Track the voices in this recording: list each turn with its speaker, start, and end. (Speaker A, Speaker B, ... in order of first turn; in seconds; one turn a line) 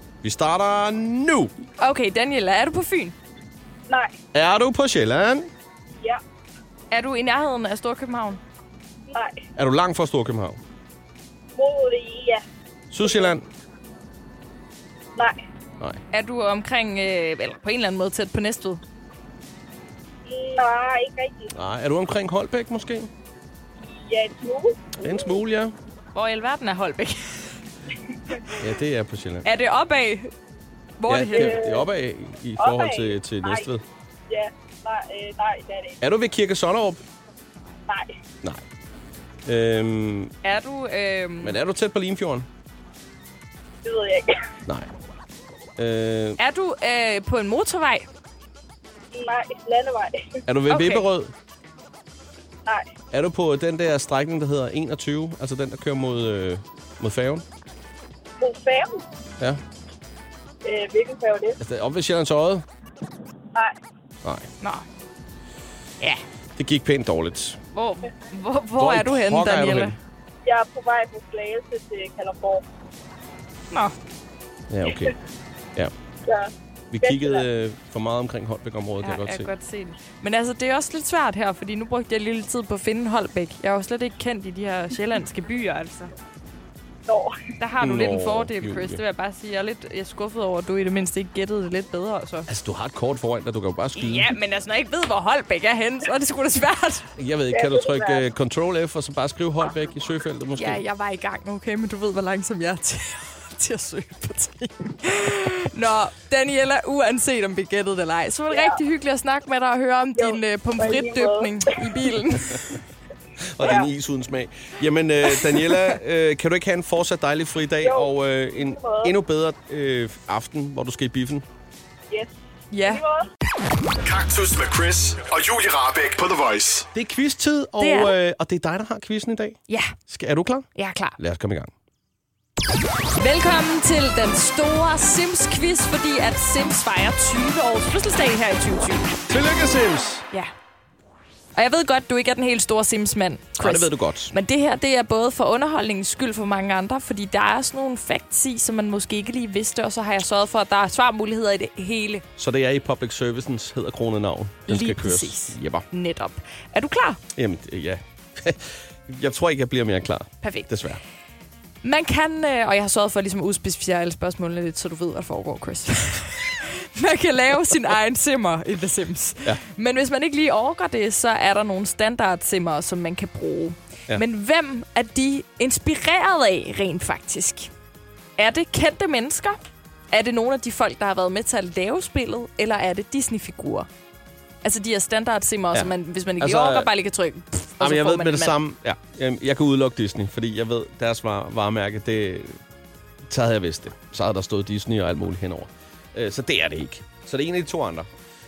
Speaker A: 0.2-1.5
Speaker B: 1.8-3.1
Speaker C: 3.9-4.1
Speaker A: 4.3-5.5
Speaker C: 5.9-6.2
Speaker B: 6.9-8.4
Speaker C: 9.1-9.4
Speaker A: 9.6-10.6
Speaker C: 11.6-12.4
Speaker A: 12.9-13.4
Speaker C: 13.0-13.3
Speaker B: 16.1-18.8
Speaker C: 20.2-21.5
Speaker A: 21.5-23.1
Speaker C: 23.9-25.3
Speaker A: 25.0-25.7
Speaker B: 26.1-27.5
Speaker A: 28.5-29.4
Speaker B: 29.4-30.3
Speaker B: 31.0-31.8
Speaker A: 31.1-33.8
Speaker C: 31.3-31.8
Speaker C: 32.6-33.7
Speaker C: 34.3-36.0
Speaker A: 36.0-37.0
Speaker A: 39.5-40.3
Speaker B: 40.4-41.6
Speaker A: 41.4-42.5
Speaker C: 43.8-44.3
Speaker A: 45.8-46.4
Speaker B: 46.4-48.1
Speaker C: 49.1-50.3
Speaker A: 50.5-51.3
Speaker B: 50.7-51.0
Speaker A: 53.1-57.4
Speaker C: 58.4-59.0
Speaker C: 60.6-61.6
Speaker A: 61.6-62.6
Speaker A: 66.5-67.6
Speaker B: 67.7-69.9
Speaker A: 68.8-70.0
Speaker C: 70.4-72.6
Speaker A: 74.7-75.1
Speaker C: 76.2-77.4
Speaker A: 76.9-79.5
Speaker B: 79.0-86.1
Speaker C: 87.1-87.3
Speaker B: 87.6-92.5
Speaker A: 87.8-89.0
Speaker A: 92.5-94.3
Speaker B: 93.9-97.0
Speaker A: 97.2-100.8
Speaker C: 97.5-98.2
Speaker B: 100.5-112.8
Speaker C: 108.5-108.8
Speaker C: 110.1-111.9
Speaker A: 113.5-121.4
Speaker C: 113.6-113.9
Speaker C: 117.8-119.1
Speaker C: 122.1-123.2
Speaker B: 122.7-123.0
Speaker D: 124.0-126.9
Speaker A: 126.9-131.7
Speaker B: 127.8-128.1
Speaker B: 129.7-129.9
Speaker B: 130.8-131.2
Speaker B: 133.2-139.1
Speaker A: 139.3-140.2
Speaker B: 141.5-152.2
Speaker A: 143.6-144.3
Speaker A: 152.4-155.8
Speaker B: 154.7-157.2
Speaker A: 157.3-161.0
Speaker B: 160.4-160.7
Speaker B: 161.8-177.7
Speaker B: 178.4-179.6
Speaker B: 180.1-183.9
Speaker B: 184.6-188.6
Speaker A: 185.7-186.9
Speaker A: 187.8-192.6
Speaker A: 193.3-198.1